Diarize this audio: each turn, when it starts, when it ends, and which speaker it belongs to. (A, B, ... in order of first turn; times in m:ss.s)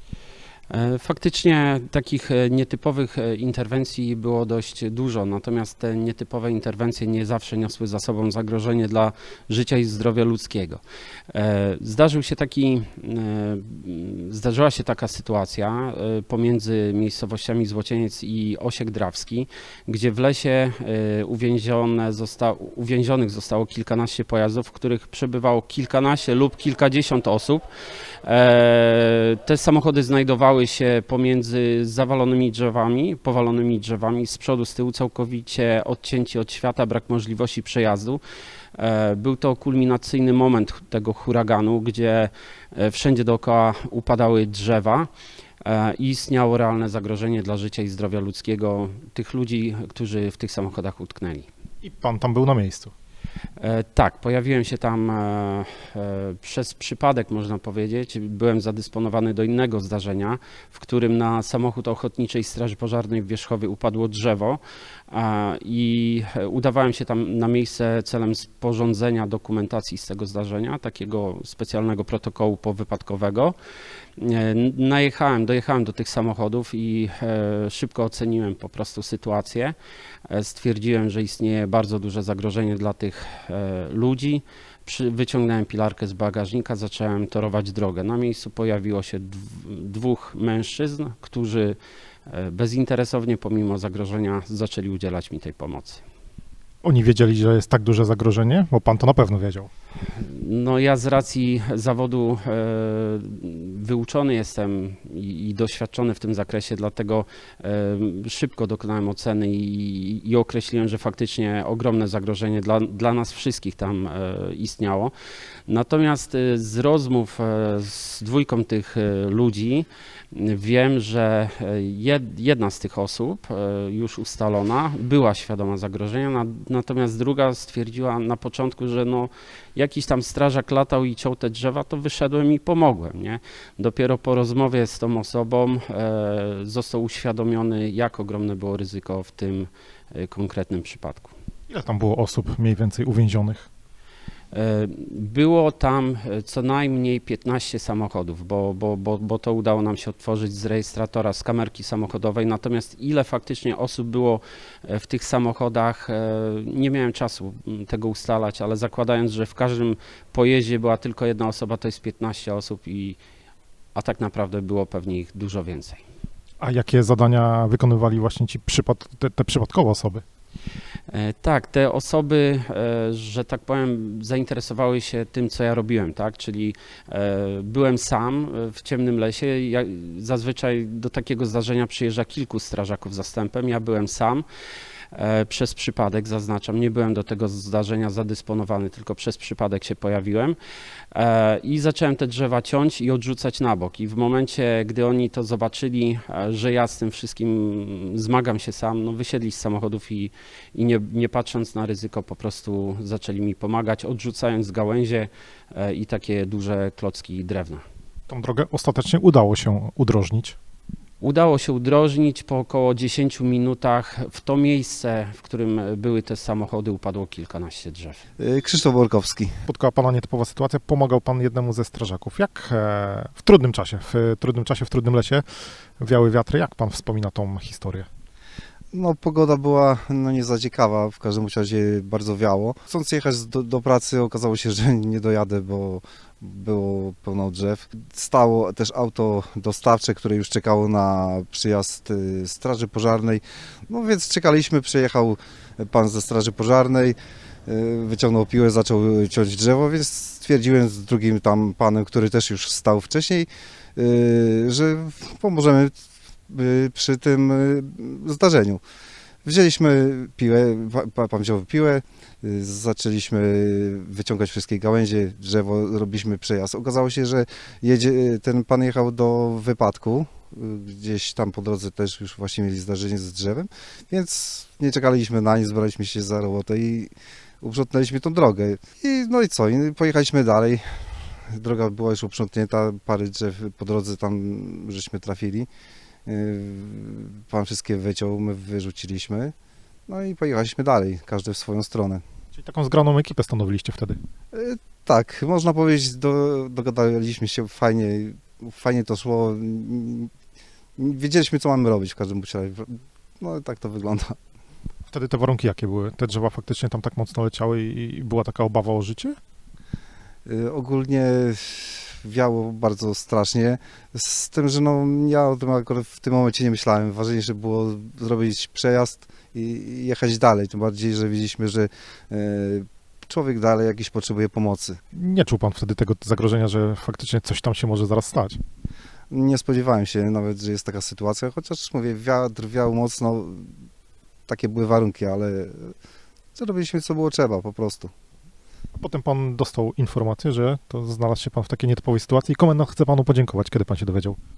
0:00.7-0:27.6 A
0:28.2-0:38.2 A
0:38.8-0:45.1 A
0:45.6-0:51.5 A
0:51.8-0:52.9 B
0:53.6-1:13.5 A
1:14.2-1:19.7 A
1:20.3-1:31.8 A
1:32.3-1:36.0 A
1:36.8-1:39.7 B
1:40.2-1:55.1 A
1:55.7-2:21.3 A
2:21.7-2:23.7 B
2:24.5-2:43.2 A
2:43.9-2:46.0 A
2:46.6-2:50.2 B
2:51.1-3:04.4 A
3:05.1-3:10.6 A
3:11.1-3:27.8 A
3:28.3-3:30.6 B
3:31.2-3:38.2 A
3:38.4-3:39.6 C
3:39.7-3:45.4 B
3:46.0-3:48.1 B
3:48.9-4:16.0 C
4:16.5-4:18.8 C
4:19.4-4:40.8 C
4:41.5-4:45.7 C
4:46.2-4:49.5 C
4:50.1-4:52.2 C
4:52.6-4:54.2 B
4:54.5-5:00.3 C
5:01.0-5:04.4 C
5:05.1-5:09.4 B
5:10.4-5:25.0 C
5:25.1-5:28.6 B
5:29.3-5:33.7 C
5:34.5-5:35.9 C
5:36.5-5:38.1 C
5:39.0-5:44.4 B